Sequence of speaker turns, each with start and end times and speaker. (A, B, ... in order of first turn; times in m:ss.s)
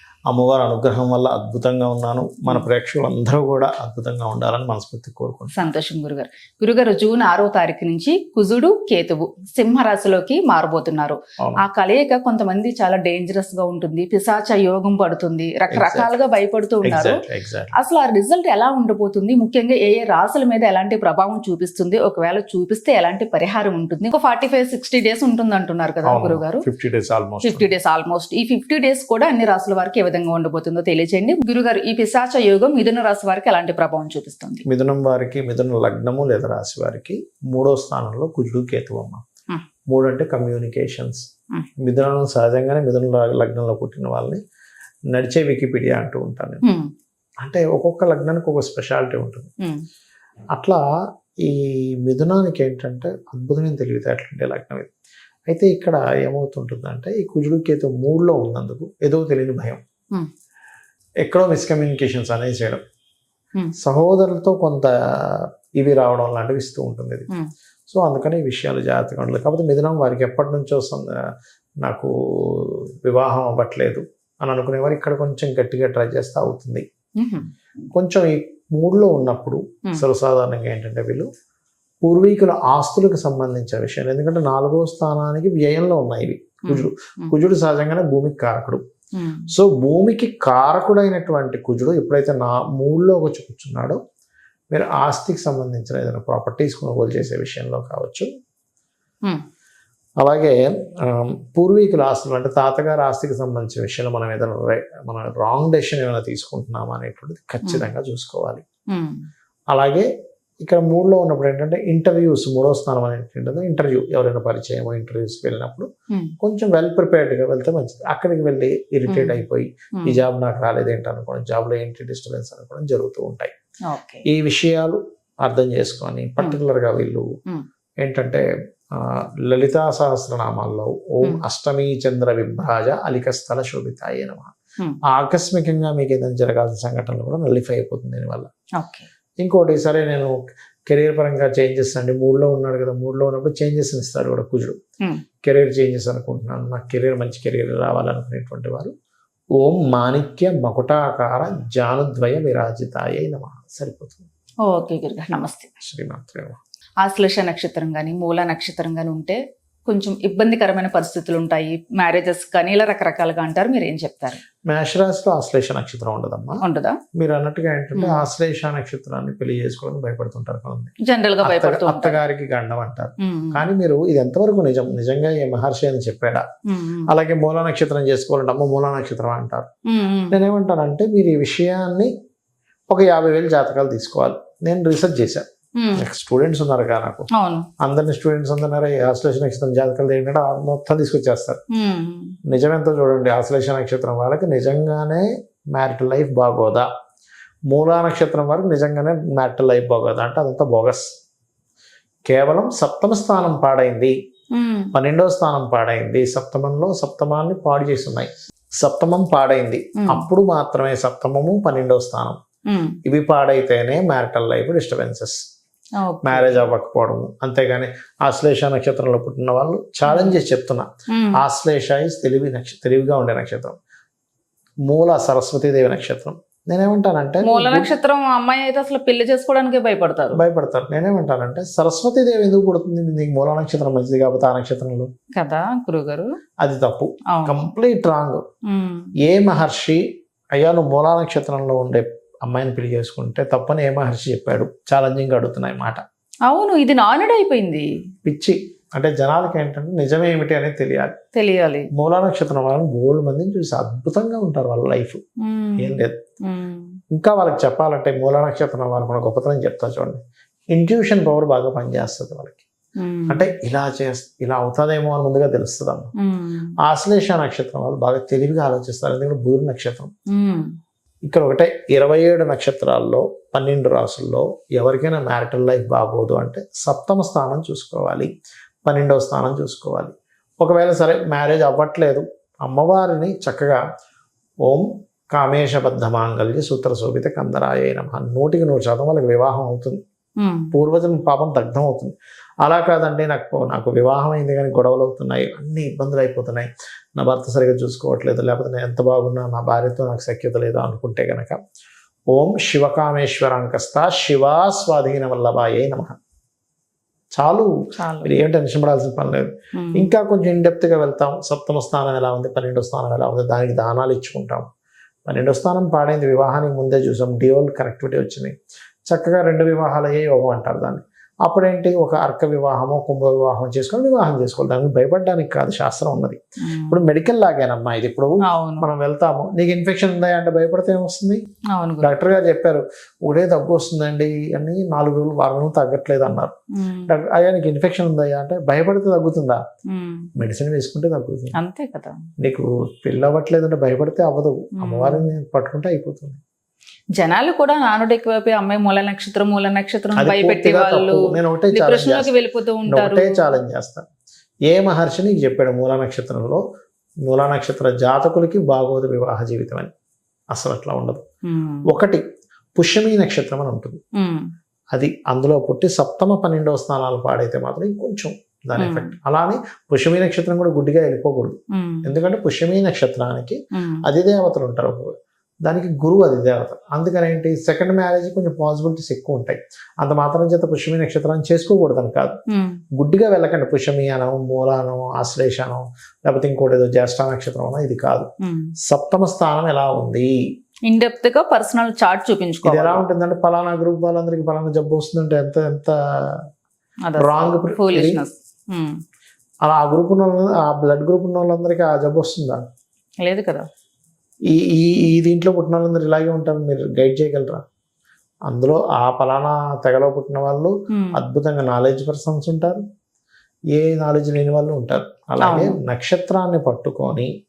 0:00.3-0:05.6 A
0:05.5-0:17.2 B
0:15.7-0:16.1 A
0:16.8-0:17.8 A
0:17.7-0:26.6 B
0:26.0-0:27.7 A
0:27.4-0:34.6 B
0:34.7-0:39.2 A
0:39.9-0:41.2 A
0:41.8-0:44.4 A
0:45.1-0:46.6 A
0:47.4-0:49.5 A
0:50.5-0:50.8 A
0:51.4-0:54.9 A
0:55.5-0:59.8 A
1:01.2-1:02.8 A
1:03.8-1:07.3 A
1:07.9-1:11.2 A
1:11.8-1:16.9 A
1:17.2-1:17.5 B
1:17.9-1:21.3 A
1:22.0-1:28.8 A
1:26.7-1:27.3 B
1:29.2-1:29.5 B
1:29.5-1:34.0 A
1:34.7-1:38.3 A
1:40.2-1:48.6 A
1:48.9-1:49.2 B
1:49.7-1:50.1 A
1:50.6-1:55.9 A
1:56.4-2:03.5 A
1:59.1-1:59.4 B
2:03.9-2:04.2 B
2:04.3-2:07.3 A
2:08.0-2:14.6 A
2:15.1-2:18.5 A
2:18.8-2:19.1 B
2:19.4-2:24.8 A
2:25.4-2:28.9 A
2:29.6-2:34.3 A
2:34.6-2:35.7 B
2:35.8-2:36.6 A
2:37.0-2:44.4 B
2:44.7-2:46.6 A
2:46.6-2:47.0 B
2:47.2-2:56.5 A
2:48.0-2:48.2 B
2:51.0-2:52.2 B
2:53.2-2:53.7 B
2:56.7-2:57.1 B
2:57.1-2:59.7 A
2:59.9-3:00.4 B
3:00.3-3:02.1 A
3:02.9-3:07.3 A
3:05.8-3:06.0 B
3:07.3-3:07.7 B
3:07.8-3:11.6 A
3:11.7-3:12.4 B
3:12.5-3:16.9 A
3:17.7-3:21.1 A
3:22.3-3:24.1 A
3:24.5-3:24.9 B
3:24.9-3:32.4 A
3:30.0-3:30.3 B
3:32.7-3:33.0 B
3:33.0-3:35.4 A
3:36.0-3:36.7 B
3:36.2-3:43.8 A
3:40.1-3:40.3 B
3:41.1-3:41.4 B
3:44.9-3:47.9 A
3:47.4-3:50.4 B
3:50.3-3:55.1 A
3:55.3-3:56.3 B
3:56.6-3:58.4 A
3:58.7-3:59.1 B
3:59.2-4:00.0 A
4:00.6-4:06.0 A
4:06.5-4:07.9 B
4:08.2-4:11.2 A
4:11.4-4:11.9 B
4:11.9-4:15.2 A
4:15.4-4:17.0 B
4:15.8-4:16.2 A
4:17.1-4:20.2 A
4:20.7-4:22.6 A
4:23.0-4:23.4 B
4:23.3-4:26.1 A
4:26.2-4:26.7 B
4:26.8-4:30.1 A
4:30.3-4:30.7 B
4:31.3-4:38.3 A
4:38.8-4:43.8 A
4:44.6-4:50.0 A
4:50.4-4:50.7 B
4:50.7-5:01.6 A
5:02.3-5:06.2 A
5:07.3-5:14.7 A
5:08.0-5:08.4 B
5:09.8-5:10.1 B
5:15.3-5:18.5 A
5:19.1-5:31.4 A
5:26.6-5:27.0 B
5:28.4-5:28.9 B
5:31.7-5:32.1 B
5:32.0-5:36.6 A
5:36.8-5:37.1 B
5:37.1-5:39.6 A
5:39.9-5:40.3 B
5:40.4-5:41.6 A
5:41.6-5:42.2 B
5:42.4-5:46.4 A
5:44.8-5:45.3 B
5:47.2-5:53.5 B
5:50.2-5:52.3 A
5:52.9-5:54.0 A
5:54.7-5:56.6 A
5:57.3-5:59.9 A
6:00.5-6:01.3 A
6:01.4-6:01.9 B
6:01.9-6:02.2 A
6:02.8-6:04.0 A
6:04.2-6:04.5 B
6:04.9-6:15.1 A
6:08.8-6:09.1 B
6:11.7-6:12.1 B
6:13.7-6:14.0 B
6:15.6-6:22.4 A
6:22.5-6:22.8 B
6:23.0-6:28.3 A
6:28.4-6:28.7 B
6:28.9-6:30.3 A
6:30.9-6:33.0 B
6:32.6-6:36.4 A
6:37.1-6:39.0 B
6:37.2-6:38.2 A
6:39.7-6:42.6 A
6:43.2-6:43.7 B
6:44.5-6:47.6 A
6:48.5-6:52.8 A
6:50.9-6:51.2 B
6:53.7-6:57.3 A
6:55.4-6:55.8 B